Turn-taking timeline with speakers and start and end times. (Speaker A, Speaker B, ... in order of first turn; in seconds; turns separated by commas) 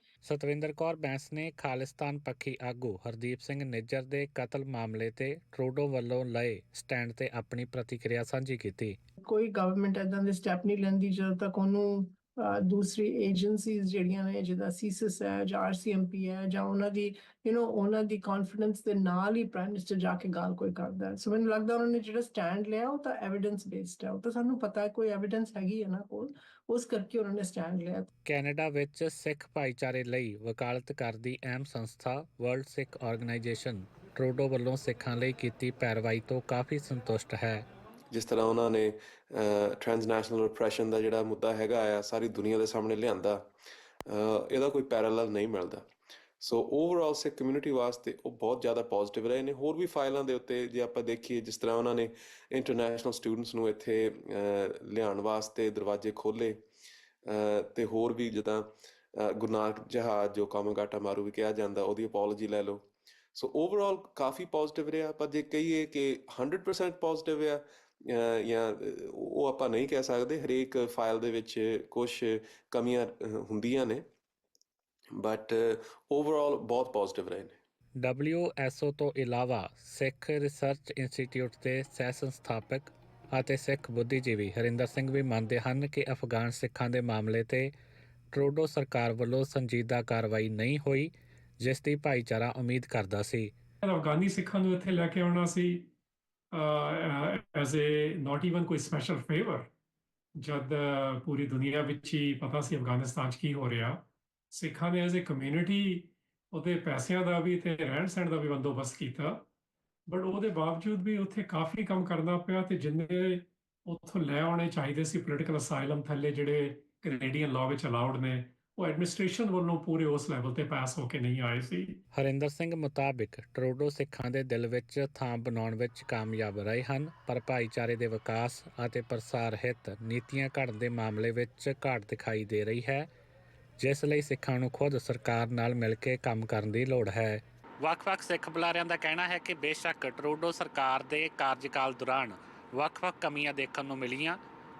Speaker A: 0.2-9.0, Speaker B: 9.2-28.1, Speaker A: 28.3-37.7, Speaker C: 38.1-43.5, Speaker C: 44.1-45.9, Speaker C: 46.4-56.6, Speaker C: 57.3-74.0, Speaker C: 75.2-77.6, Speaker A: 78.0-87.7, Speaker A: 88.3-93.5, Speaker D: 93.8-95.9, Speaker D: 96.5-99.7, Speaker D: 100.4-109.5, Speaker D: 110.1-122.0, Speaker A: 122.1-133.1, Speaker A: 133.8-144.4